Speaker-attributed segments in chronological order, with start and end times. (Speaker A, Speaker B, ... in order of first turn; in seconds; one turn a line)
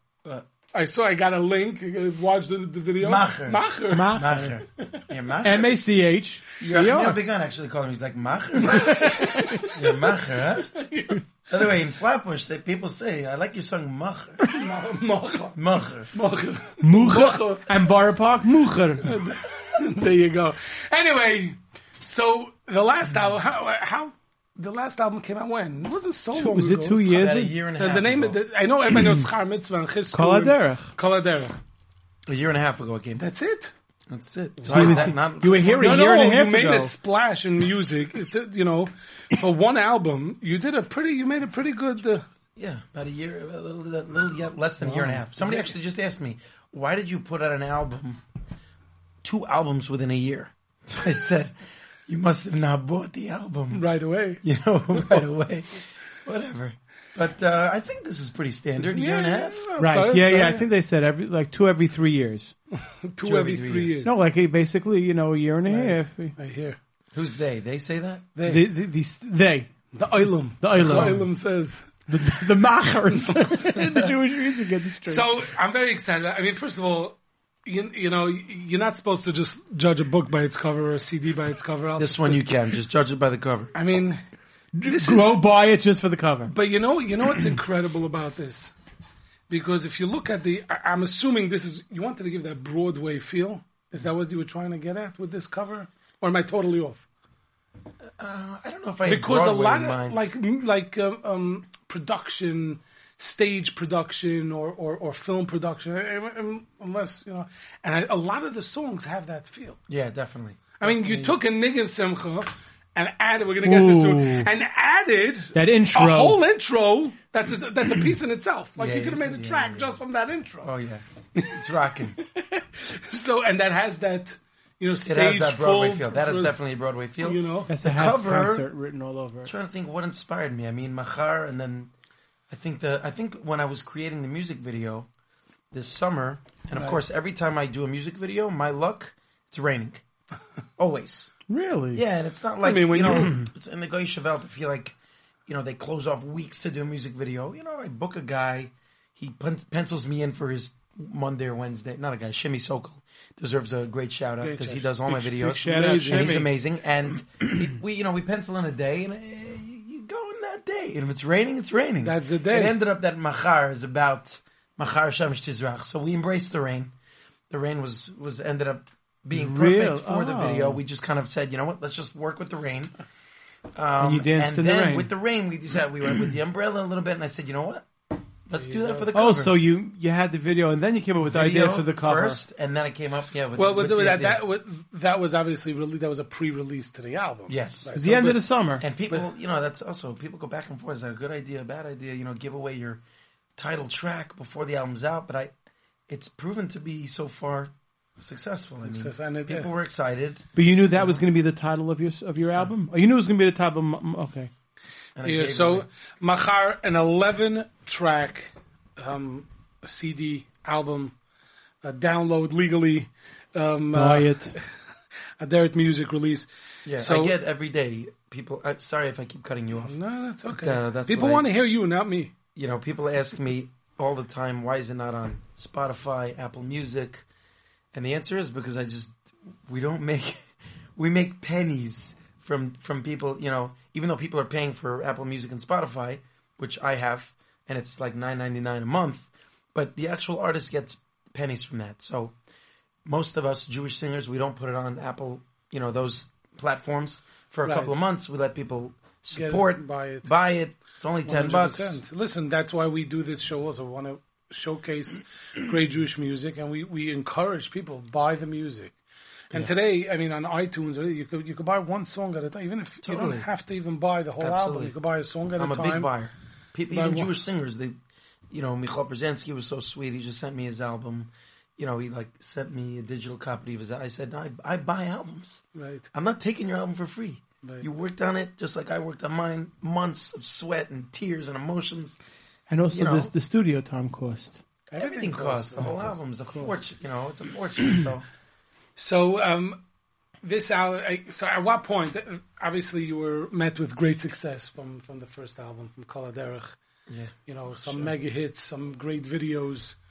Speaker A: 0.7-5.0
Speaker B: 3.0-5.9
Speaker C: 3.9-4.6
Speaker C: 5.4-7.2
Speaker B: 6.6-10.8
Speaker A: 8.7-9.8
Speaker C: 8.7-9.7
Speaker A: 10.7-11.2
Speaker B: 11.5-14.4
Speaker A: 14.5-15.6
Speaker B: 15.6-16.1
Speaker A: 16.1-17.7
Speaker C: 16.8-19.3
Speaker A: 19.1-27.2
Speaker C: 26.3-27.6
Speaker B: 27.1-28.4
Speaker A: 27.8-31.6
Speaker C: 30.1-30.9
Speaker B: 32.3-33.3
Speaker A: 33.2-33.7
Speaker B: 34.1-36.1
Speaker A: 34.6-35.2
Speaker C: 34.7-36.9
Speaker A: 35.7-42.3
Speaker B: 42.6-48.2
Speaker A: 44.8-45.7
Speaker C: 44.9-45.1
Speaker B: 49.2-51.5
Speaker B: 52.1-53.9
Speaker A: 53.7-55.3
Speaker B: 54.4-60.0
Speaker A: 58.8-60.7
Speaker C: 59.8-62.5
Speaker A: 62.8-64.2
Speaker B: 63.2-64.1
Speaker C: 64.0-66.3
Speaker A: 65.7-66.8
Speaker B: 67.1-68.3
Speaker A: 68.3-68.7
Speaker C: 68.5-71.4
Speaker A: 69.9-71.9
Speaker C: 72.1-75.4
Speaker A: 73.2-74.1
Speaker A: 75.0-82.6
Speaker B: 82.0-83.7
Speaker A: 83.7-84.2
Speaker C: 84.8-86.5
Speaker A: 84.8-85.4
Speaker A: 86.5-88.7
Speaker A: 89.5-97.1
Speaker B: 98.2-100.3
Speaker A: 99.1-109.8
Speaker B: 109.9-111.4
Speaker A: 110.8-120.7
Speaker C: 113.6-114.5
Speaker C: 115.5-116.4
Speaker B: 118.8-120.0
Speaker B: 120.6-122.2
Speaker A: 122.3-126.6
Speaker B: 125.0-128.7
Speaker A: 127.2-127.7
Speaker C: 127.7-129.5
Speaker B: 129.4-131.9
Speaker B: 132.5-135.1
Speaker B: 135.7-140.0
Speaker A: 136.7-137.0
Speaker B: 140.8-141.3
Speaker C: 141.5-142.0
Speaker B: 141.9-144.9
Speaker A: 142.6-143.4
Speaker B: 145.5-166.9
Speaker A: 154.4-156.5
Speaker C: 155.4-156.5
Speaker A: 162.0-162.8
Speaker B: 167.5-172.9
Speaker C: 169.3-170.8
Speaker B: 173.8-177.9
Speaker C: 174.0-175.1
Speaker B: 178.5-179.6
Speaker A: 178.6-179.1
Speaker C: 179.1-182.4
Speaker B: 181.2-184.4
Speaker A: 183.6-188.4
Speaker B: 187.5-188.1
Speaker C: 187.9-188.9
Speaker B: 188.8-193.0
Speaker B: 193.6-195.5
Speaker B: 196.1-200.5
Speaker A: 198.8-199.7
Speaker C: 200.5-204.5
Speaker B: 205.2-205.9
Speaker A: 205.2-211.2
Speaker A: 211.8-214.7
Speaker C: 213.9-214.6
Speaker A: 215.4-217.4
Speaker B: 216.8-221.5
Speaker A: 219.8-222.3
Speaker B: 222.6-227.2
Speaker B: 227.9-242.3
Speaker B: 243.1-252.0
Speaker A: 247.6-248.0
Speaker A: 249.3-250.3
Speaker A: 251.2-258.9
Speaker A: 259.5-266.1
Speaker B: 263.0-263.5
Speaker B: 264.4-265.0
Speaker B: 265.6-268.0
Speaker A: 266.9-267.3
Speaker B: 268.5-282.2
Speaker A: 275.8-276.1
Speaker C: 282.7-284.6
Speaker B: 282.9-283.3
Speaker A: 284.9-286.8
Speaker B: 285.0-288.3
Speaker A: 289.0-289.8
Speaker A: 290.4-296.8
Speaker B: 297.1-298.1
Speaker A: 297.5-300.0